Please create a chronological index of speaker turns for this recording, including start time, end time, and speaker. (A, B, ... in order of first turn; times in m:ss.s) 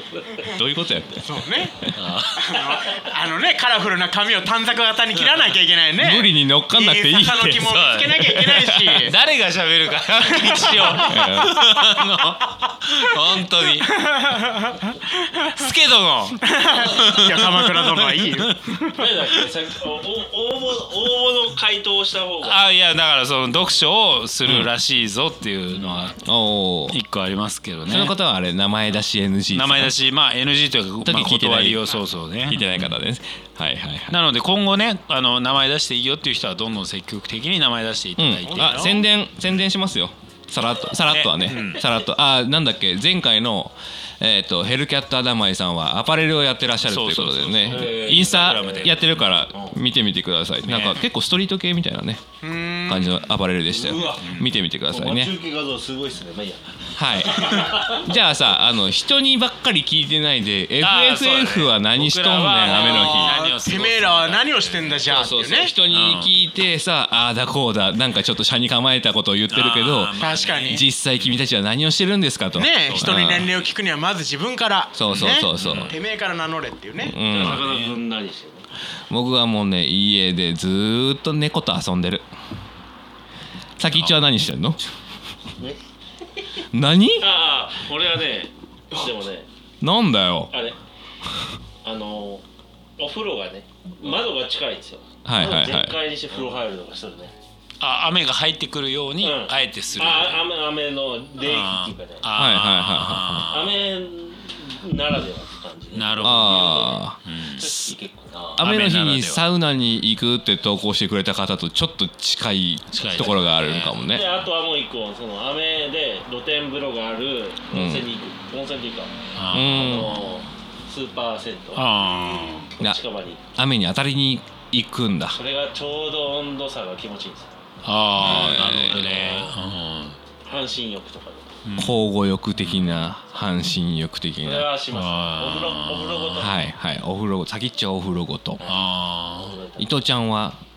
0:00.4-0:01.2 A
0:01.2-0:01.8 B
0:02.0-0:02.8 C
0:02.4-0:09.2 B
0:06.0-0:07.8 A
0:07.6-0:08.3 C
0:08.3-0:09.0 A
0:09.0-0:13.9 C
0:10.2-0:12.0 B
0:11.0-0:11.6 A
0:13.8-0:15.6 B
0:15.5-0:18.6 C
0:16.4-0:19.2 B
0:18.9-0:22.7 D
0:22.4-0:26.2 C
0:26.2-0:27.0 A
0:26.9-0:28.2 C
0:27.9-0:29.9 A
0:29.5-0:33.0 C
0:31.0-0:31.9 A
0:32.5-0:34.2 A
0:34.1-0:39.0 C
0:38.2-0:52.2 A
0:38.4-0:39.0 B
0:41.1-0:41.8 C
0:46.8-0:49.1 C
0:47.7-0:49.8 D
0:50.6-0:51.0 C
0:52.4-0:53.2 B
0:52.8-0:55.3 A
0:53.7-0:54.3 D
0:54.2-0:54.5 C
0:54.9-0:58.0 D
0:57.0-1:03.4 A
1:00.8-1:05.1 C
1:02.6-1:05.7 B
1:05.1-1:10.1 A
1:05.9-1:06.4 C
1:09.5-1:11.4 C
1:10.2-1:10.8 B
1:10.7-1:13.5 A
1:12.5-1:17.2 B
1:12.9-1:13.5 C
1:15.0-1:15.9 A
1:15.1-1:16.0 C
1:17.0-1:17.6 A
1:17.2-1:18.7 D
1:17.3-1:17.9 C
1:19.1-1:22.2 A
1:23.8-1:24.8 A
1:23.9-1:24.2 C
1:26.7-1:27.2 A
1:27.2-1:29.5 D
1:29.8-1:30.5 A
1:30.5-1:30.8 D
1:31.8-1:32.4 D
1:33.0-1:37.3 D
1:35.2-1:36.0 A
1:37.8-1:40.4 C
1:39.2-1:42.3 D
1:41.4-1:43.8 C
1:42.3-1:43.5 A
1:43.5-1:48.6 D
1:45.9-1:47.8 C
1:46.2-1:47.2 A
1:48.6-1:54.3 A
1:48.6-1:49.4 C
1:52.9-1:54.4 C
1:54.1-1:59.1 D
1:57.7-1:58.1 A
1:59.4-2:00.2 C
1:59.5-2:00.2 A
1:59.7-2:01.9 D
2:01.7-2:02.8 C
2:02.0-2:02.6 B
2:02.8-2:03.6 D
2:03.6-2:05.4 A
2:05.3-2:07.6 D
2:07.8-2:10.2 C
2:08.2-2:09.5 A
2:10.4-2:11.5 D
2:11.6-2:12.0 C
2:11.8-2:14.7 A
2:12.6-2:12.9 C
2:14.4-2:16.7 D
2:14.9-2:16.5 C
2:16.4-2:18.6 A
2:18.6-2:20.0 D
2:18.6-2:19.6 C
2:19.8-2:20.6 A